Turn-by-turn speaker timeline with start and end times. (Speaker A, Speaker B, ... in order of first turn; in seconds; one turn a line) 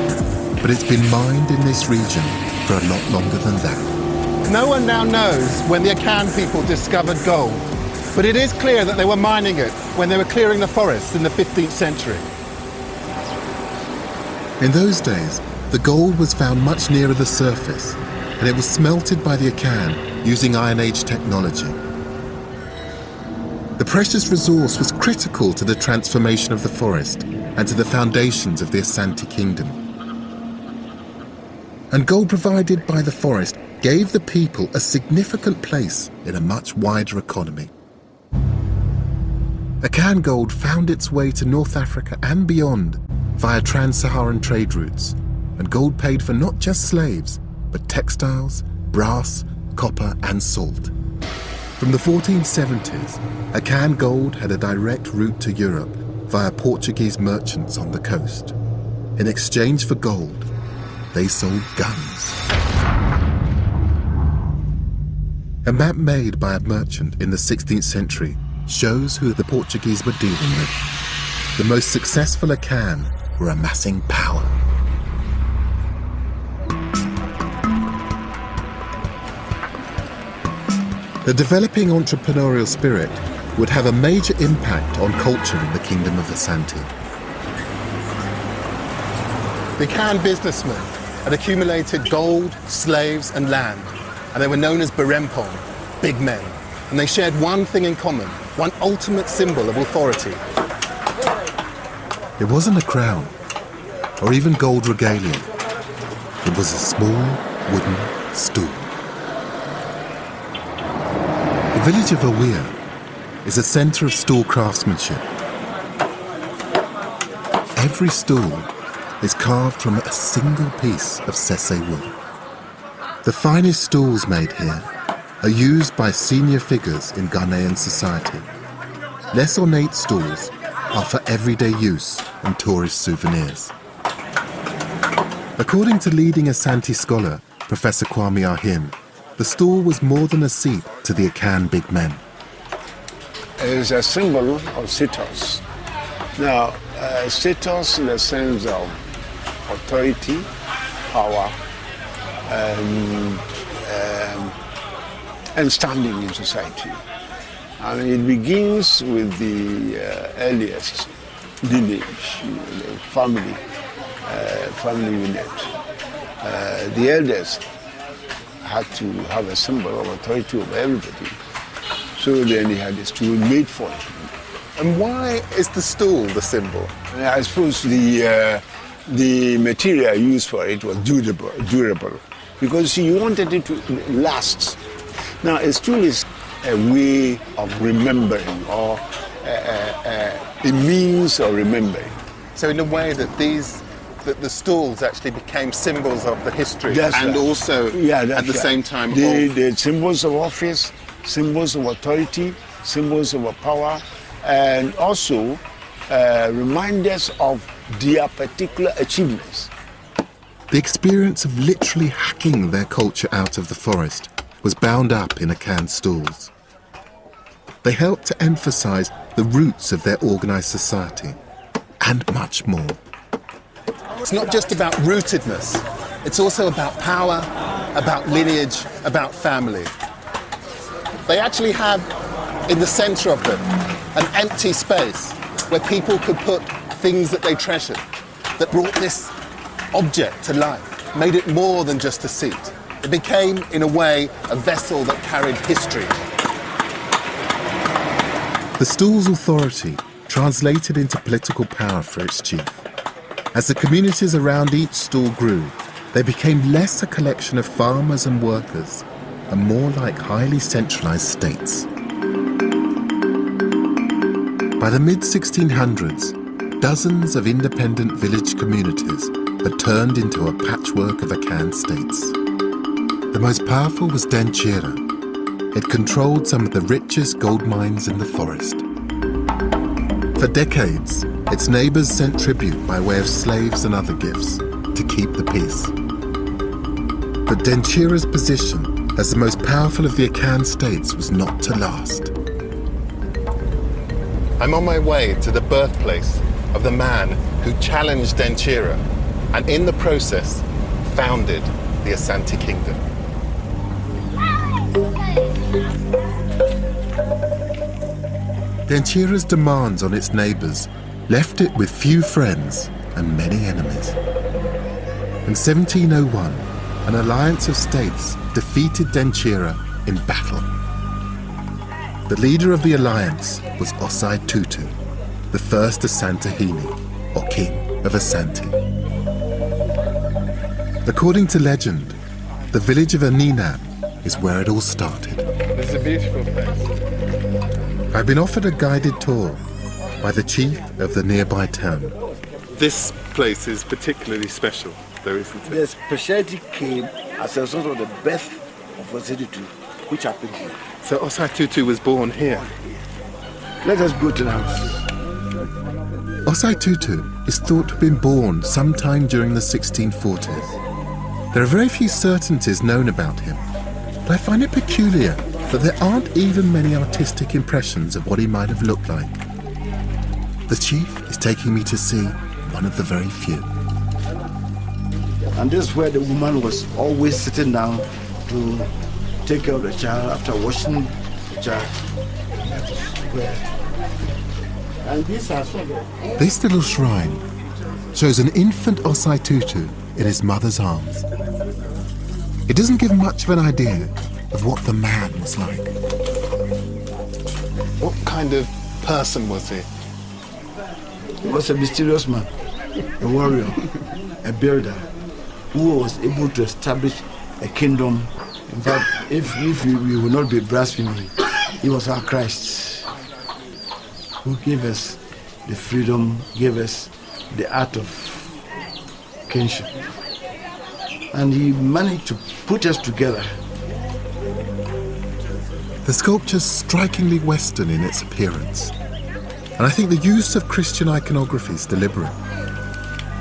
Speaker A: 0.6-3.9
Speaker B: 4.4-12.3
Speaker A: 14.6-21.8
Speaker A: 23.8-29.8
Speaker A: 31.9-37.7
Speaker A: 39.8-50.9
Speaker A: 51.8-58.5
Speaker A: 59.2-60.5
Speaker A: 61.1-62.4
Speaker A: 65.6-70.8
Speaker A: 71.5-74.5
Speaker A: 81.2-86.9
Speaker B: 89.8-100.4
Speaker A: 102.4-103.3
Speaker A: 104.2-105.5
Speaker A: 106.4-108.9
Speaker A: 111.7-112.8
Speaker A: 113.4-115.3
Speaker A: 117.8-122.1
Speaker A: 123.2-124.9
Speaker A: 125.4-128.5
Speaker A: 129.3-133.7
Speaker A: 135.6-142.2
Speaker C: 143.6-145.6
Speaker C: 146.3-149.0
Speaker C: 149.7-150.5
Speaker C: 151.1-151.5
Speaker C: 152.5-154.5
Speaker C: 155.5-157.0
Speaker C: 157.8-161.1
Speaker C: 161.6-163.6
Speaker C: 164.2-165.7
Speaker C: 166.4-167.6
Speaker C: 168.6-171.3
Speaker C: 172.2-174.3
Speaker B: 174.8-176.9
Speaker C: 177.1-184.8
Speaker C: 185.4-192.2
Speaker B: 192.5-199.5
Speaker C: 196.9-209.7
Speaker A: 210.7-216.5
Speaker A: 217.8-221.4
Speaker A: 222.0-223.0
Speaker B: 224.2-229.9
Speaker B: 231.3-232.1
Speaker B: 232.7-238.0
Speaker B: 238.6-239.3
Speaker B: 239.9-246.2
Speaker A: 248.8-252.8
Speaker A: 253.5-261.9
Speaker A: 264.8-272.4
Speaker A: 273.3-275.0
Speaker A: 275.7-278.8
Speaker A: 280.3-285.9
Speaker A: 287.4-292.3
Speaker B: 294.6-303.0
Speaker A: 308.9-314.2
Speaker A: 315.4-320.7
Speaker A: 322.3-324.9
Speaker A: 325.5-328.8
Speaker A: 331.0-332.2
Speaker A: 332.7-335.5
Speaker B: 335.7-336.9
Speaker A: 338.1-339.6
Speaker A: 340.2-342.1
Speaker B: 342.7-345.8
Speaker D: 345.6-350.8
Speaker B: 351.0-352.7
Speaker D: 353.8-355.1
Speaker A: 356.4-360.7
Speaker A: 361.5-363.6
Speaker A: 364.2-369.4
Speaker A: 370.7-373.7
Speaker D: 375.5-378.9
Speaker D: 379.4-381.9
Speaker D: 382.6-383.7
Speaker D: 385.0-386.1
Speaker A: 386.4-387.4
Speaker A: 388.1-391.2
Speaker A: 392.7-395.9
Speaker B: 398.0-399.9
Speaker D: 401.4-402.5
Speaker D: 403.2-403.8
Speaker D: 404.4-405.1
Speaker D: 405.7-413.1
Speaker D: 414.4-418.6
Speaker D: 419.5-420.1
Speaker D: 421.3-423.6
Speaker A: 426.0-428.9
Speaker A: 429.8-432.4